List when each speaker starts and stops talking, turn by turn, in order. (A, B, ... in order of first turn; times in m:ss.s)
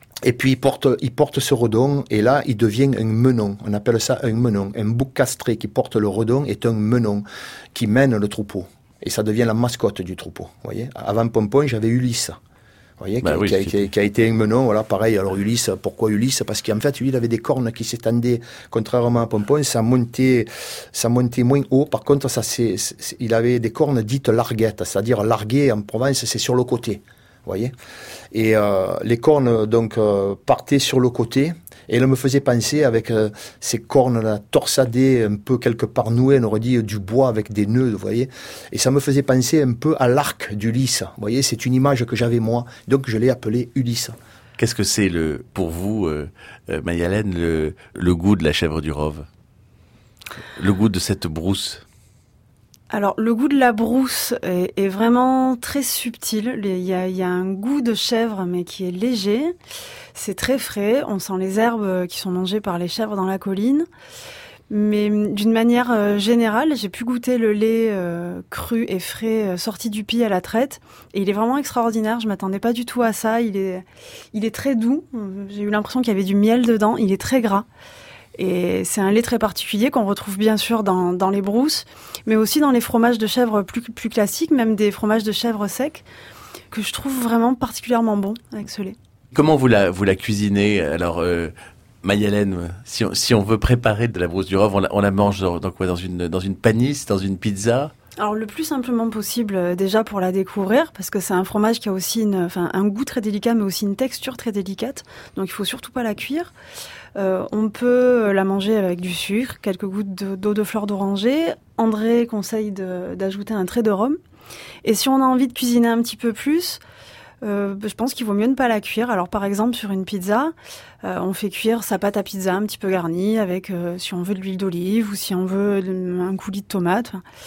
0:00.2-0:12.4 A
0:13.0-0:27.7 A
0:13.2-0:13.9 B
0:28.3-0:44.2 A
0:44.6-0:49.2 B
0:50.5-0:51.8 B
0:52.9-0:59.5 C
1:00.1-1:03.9 C
1:04.7-1:17.6 C
1:18.4-1:26.0 C
1:26.7-1:29.0 C
1:29.3-1:37.9 B
1:38.2-1:46.5 C
1:47.2-1:54.2 C
1:54.8-1:56.8 C
1:57.4-2:07.2 C